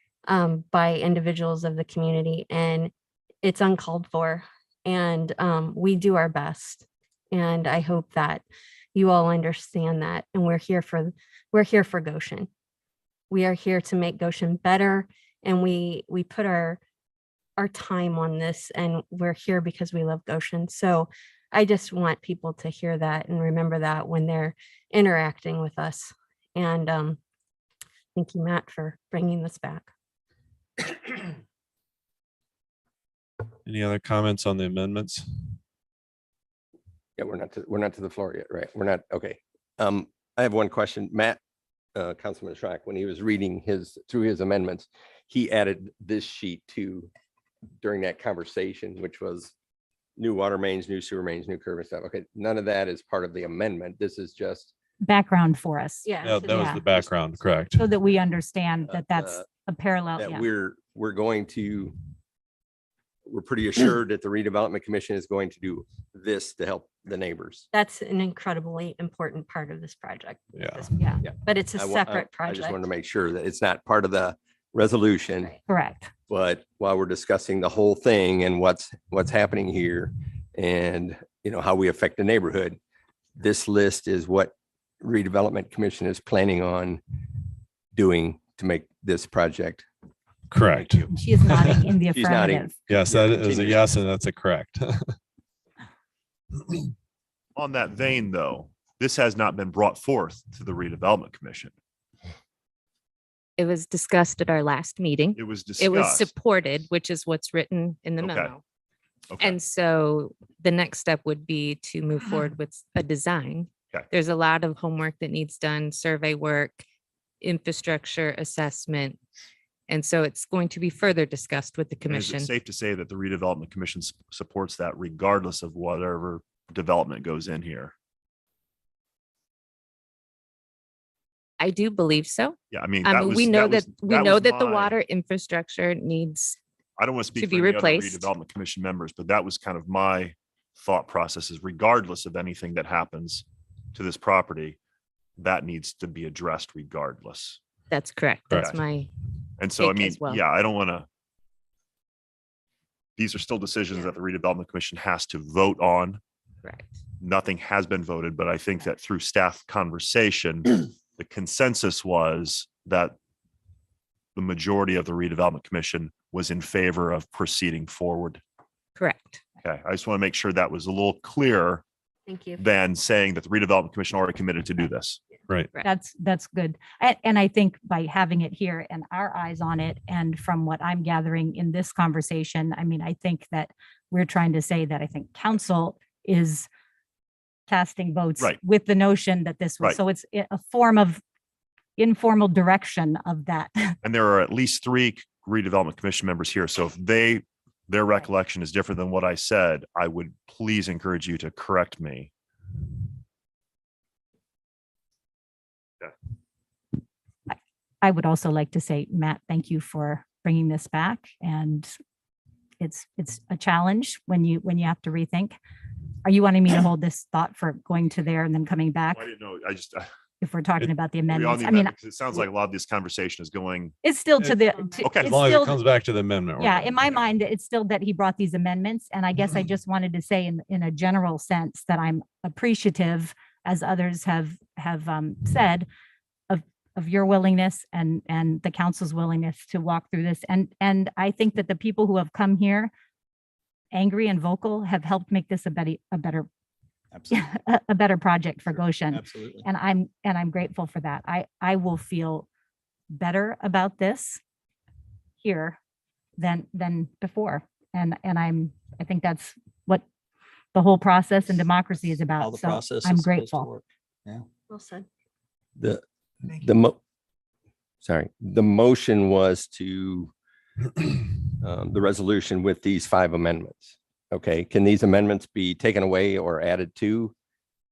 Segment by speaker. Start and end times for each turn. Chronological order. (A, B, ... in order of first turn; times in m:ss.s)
0:00.3-0:02.9 A
0:03.4-0:12.5 A
0:13.3-0:16.8 A
0:17.6-0:27.2 A
0:28.1-0:29.9 A
0:33.6-0:35.2 B
0:37.2-0:41.4 C
0:41.9-0:47.1 C
0:47.8-0:49.5 C
0:50.2-0:54.7 C
0:55.0-0:56.9 D
0:56.0-0:57.1 A
0:56.2-0:57.9 B
0:57.7-1:00.4 D
0:58.8-0:59.5 C
1:00.2-1:01.9 C
1:03.3-1:07.6 C
1:07.7-1:12.8 A
1:10.6-1:10.9 B
1:11.2-1:15.5 C
1:15.7-1:16.1 D
1:16.3-1:22.8 C
1:23.4-1:27.0 C
1:27.9-1:29.8 C
1:30.5-1:31.9 B
1:31.1-1:32.7 D
1:32.1-1:33.8 C
1:32.9-1:35.1 B
1:37.6-1:41.7 E
1:43.6-1:48.6 F
1:45.3-1:46.3 E
1:48.2-1:48.6 E
1:49.3-1:49.5 E
1:49.4-1:56.8 F
1:57.4-1:59.2 F
1:59.9-2:02.5 F
2:02.1-2:07.9 E
2:11.6-2:16.6 F
2:12.7-2:15.0 E
2:17.0-2:24.8 E
2:17.4-2:18.3 F
2:25.4-2:27.6 E
2:27.9-2:29.1 F
2:28.6-2:28.8 E
2:29.6-2:31.1 E
2:29.8-2:30.4 F
2:33.2-2:36.2 E
2:36.6-2:37.0 F
2:37.2-2:43.1 E
2:44.3-2:48.4 E
2:49.0-2:49.4 F
2:49.6-2:51.8 E
2:52.3-2:52.6 A
2:52.6-2:55.3 E
2:55.8-3:06.7 D
3:07.7-3:11.2 D
3:12.0-3:13.9 D
3:14.0-3:22.3 E
3:27.5-3:31.9 D
3:32.8-3:35.5 D
3:36.2-3:39.3 D
3:39.1-3:40.1 E
3:40.4-3:41.9 D
3:41.3-3:44.0 E
3:44.0-3:45.8 D
3:44.4-3:47.2 B
3:45.0-3:45.7 E
3:46.6-3:55.8 D
3:56.5-4:02.9 D
4:03.9-4:06.5 D
4:07.1-4:07.5 G
4:07.3-4:12.5 D
4:08.6-4:09.7 G
4:13.1-4:14.4 D
4:15.4-4:15.8 D
4:16.4-4:20.0 D
4:20.7-4:23.7 D
4:22.0-4:24.4 G
4:24.7-4:25.1 A
4:25.8-4:27.0 C
4:28.0-4:30.3 C
4:31.6-4:37.3 C